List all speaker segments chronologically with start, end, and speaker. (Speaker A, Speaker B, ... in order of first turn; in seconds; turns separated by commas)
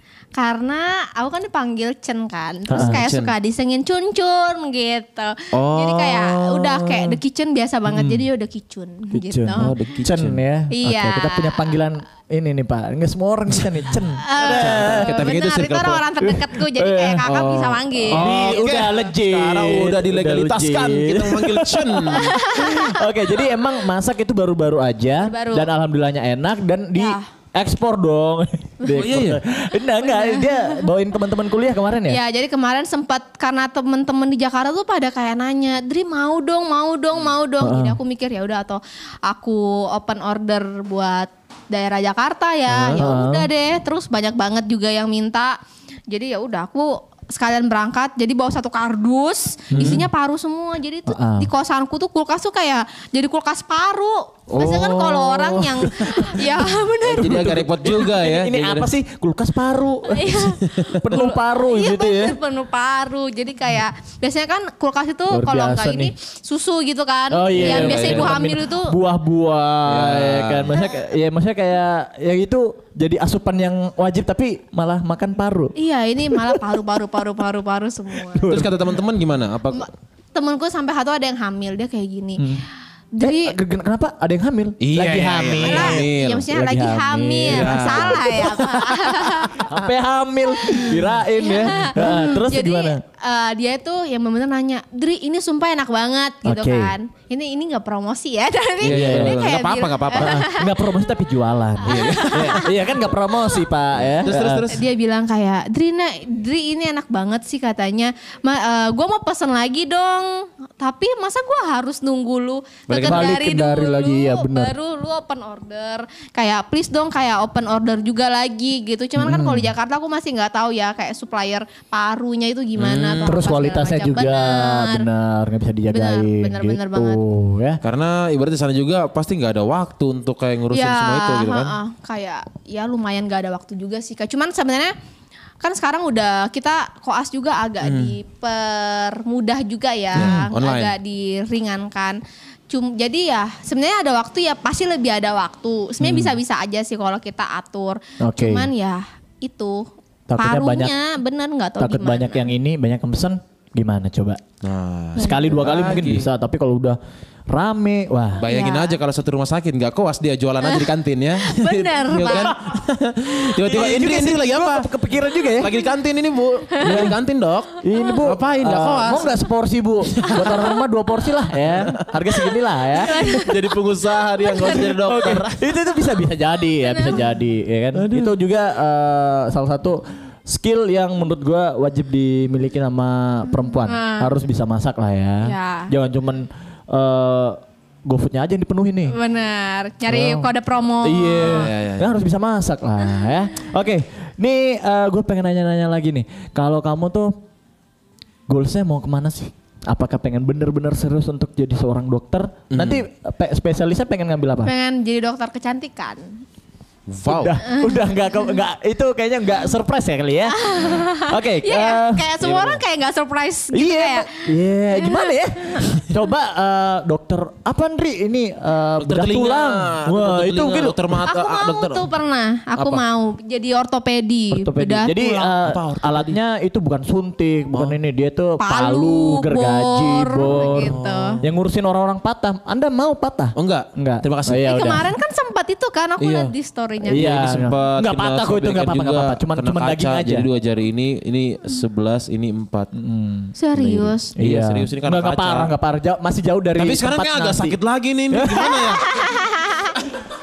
Speaker A: 0.3-9.7, Speaker B: 2.7-3.0, Speaker C: 2.7-3.3, Speaker C: 5.5-7.2, Speaker B: 7.9-8.2, Speaker B: 9.1-15.2, Speaker C: 9.6-10.4, Speaker A: 10.7-11.7, Speaker A: 14.2-18.3, Speaker C: 14.4-16.0, Speaker B: 16.2-17.4, Speaker C: 17.2-22.4, Speaker B: 18.1-32.2, Speaker A: 22.1-23.1, Speaker A: 25.2-25.7, Speaker A: 26.9-27.3, Speaker C: 28.9-29.4, Speaker A: 30.0-30.9, Speaker A: 32.1-45.6, Speaker B: 37.6-38.0, Speaker C: 42.7-43.0, Speaker B: 43.0-43.5, Speaker A: 46.1-57.5, Speaker B: 49.7-50.0, Speaker C: 49.7-50.0, Speaker B: 51.1-51.5, Speaker C: 54.5-56.4, Speaker B: 57.0-62.4, Speaker C: 57.1-58.9, Speaker A: 60.1-69.0, Speaker C: 60.6-61.0, Speaker B: 65.3-66.1, Speaker B: 67.3-75.7, Speaker C: 67.5-68.3, Speaker C: 69.8-70.8, Speaker A: 75.7-78.5, Speaker B: 76.3-76.7, Speaker B: 78.2-78.9, Speaker C: 78.5-79.9, Speaker A: 79.7-82.6, Speaker B: 82.4-82.6, Speaker A: 83.1-83.5, Speaker B: 83.2-88.5, Speaker C: 84.8-86.5, Speaker A: 85.6-89.7, Speaker C: 87.5-89.6, Speaker B: 89.5-93.0, Speaker A: 91.3-100.9, Speaker B: 96.4-96.9, Speaker C: 98.8-100.4, Speaker B: 98.8-99.4, Speaker B: 100.2-104.7, Speaker A: 101.8-103.6, Speaker C: 101.8-102.7, Speaker C: 104.0-104.8, Speaker A: 104.7-125.0, Speaker C: 112.9-113.3, Speaker B: 113.0-114.7, Speaker B: 119.2-119.7, Speaker C: 122.8-123.4, Speaker B: 123.2-127.8, Speaker A: 125.9-127.2, Speaker C: 127.8-131.8, Speaker A: 130.7-134.9, Speaker A: 135.6-152.5, Speaker C: 137.8-138.1, Speaker B: 140.1-140.5, Speaker C: 140.1-140.9, Speaker B: 148.2-148.7, Speaker B: 150.3-150.9, Speaker B: 151.8-154.4, Speaker C: 154.6-156.3, Speaker B: 155.2-158.5, Speaker A: 155.2-155.6, Speaker C: 158.4-164.9, Speaker A: 158.4-158.9, Speaker A: 161.4-162.5, Speaker B: 162.2-162.6, Speaker B: 163.5-165.7, Speaker C: 165.6-169.3, Speaker B: 166.8-167.2, Speaker B: 167.8-173.4, Speaker C: 170.1-170.8, Speaker C: 171.6-172.1, Speaker A: 173.0-173.5, Speaker C: 173.2-175.6, Speaker A: 174.4-175.2, Speaker B: 174.6-189.2, Speaker A: 176.8-177.2, Speaker C: 177.9-178.3, Speaker A: 183.8-184.3, Speaker A: 185.4-185.9, Speaker A: 189.1-191.7, Speaker B: 190.1-190.5, Speaker B: 191.0-197.4, Speaker C: 191.4-192.1, Speaker B: 198.5-204.7, Speaker C: 202.7-203.0, Speaker A: 204.6-206.3, Speaker C: 207.1-207.6, Speaker B: 207.2-212.3, Speaker A: 207.6-208.5, Speaker A: 210.5-215.9, Speaker C: 212.4-212.8, Speaker B: 213.7-221.2, Speaker C: 219.0-222.1, Speaker A: 221.2-225.4, Speaker C: 222.8-223.0, Speaker B: 224.5-235.0, Speaker C: 225.2-226.4, Speaker C: 227.7-228.0, Speaker A: 228.6-231.4, Speaker C: 230.7-231.4, Speaker C: 233.6-234.8, Speaker A: 234.6-237.3, Speaker C: 236.2-236.5, Speaker B: 237.1-240.5, Speaker C: 237.1-242.9, Speaker B: 242.9-243.5, Speaker A: 243.6-244.3, Speaker C: 243.8-245.7, Speaker B: 244.3-247.8, Speaker C: 246.8-249.4, Speaker B: 248.3-248.8, Speaker A: 248.6-250.0